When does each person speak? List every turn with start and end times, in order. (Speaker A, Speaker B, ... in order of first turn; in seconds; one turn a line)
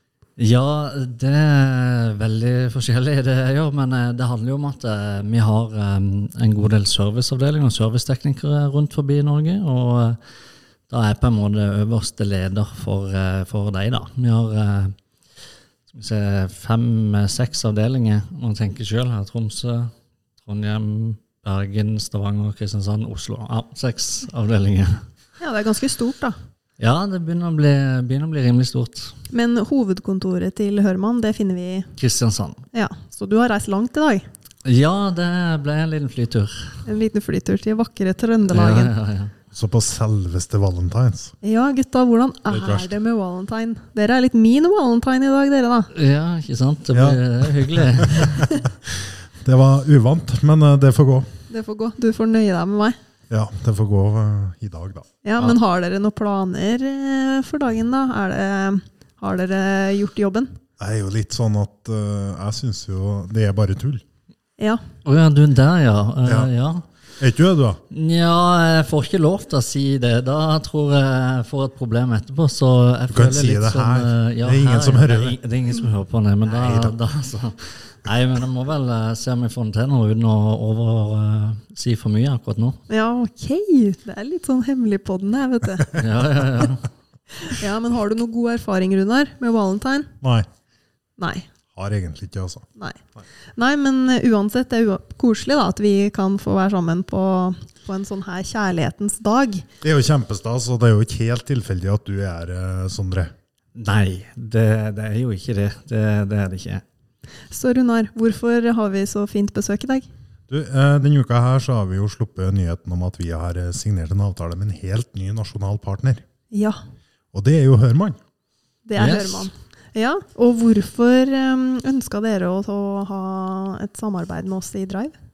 Speaker A: 0.4-10.2
Speaker A: 10.9-14.9
Speaker A: 15.9-19.9
Speaker A: 20.4-24.9
Speaker B: 25.4-26.4
Speaker A: 26.8-29.1
Speaker B: 29.3-31.9
Speaker A: 32.0-32.6
Speaker B: 32.7-34.2
Speaker A: 34.6-36.5
Speaker B: 36.9-38.9
Speaker A: 38.5-39.3
Speaker C: 39.5-41.3
Speaker B: 41.4-45.9
Speaker C: 42.5-43.0
Speaker A: 45.9-48.4
Speaker C: 46.9-48.4
Speaker C: 49.4-51.3
Speaker B: 51.5-53.0
Speaker C: 53.3-55.1
Speaker B: 55.2-60.6
Speaker C: 60.8-64.0
Speaker A: 65.0-66.8
Speaker C: 66.2-66.5
Speaker C: 67.2-67.8
Speaker A: 67.9-82.8
Speaker C: 73.1-75.4
Speaker C: 76.5-77.0
Speaker B: 82.9-85.9
Speaker A: 85.9-86.8
Speaker B: 87.4-90.1
Speaker C: 90.2-90.5
Speaker B: 91.2-91.5
Speaker C: 91.8-92.6
Speaker B: 93.6-99.7
Speaker C: 99.8-103.3
Speaker A: 103.8-106.8
Speaker B: 107.5-110.1
Speaker C: 110.5-116.2
Speaker B: 116.5-116.8
Speaker C: 117.3-118.2
Speaker B: 118.9-125.2
Speaker A: 118.9-119.5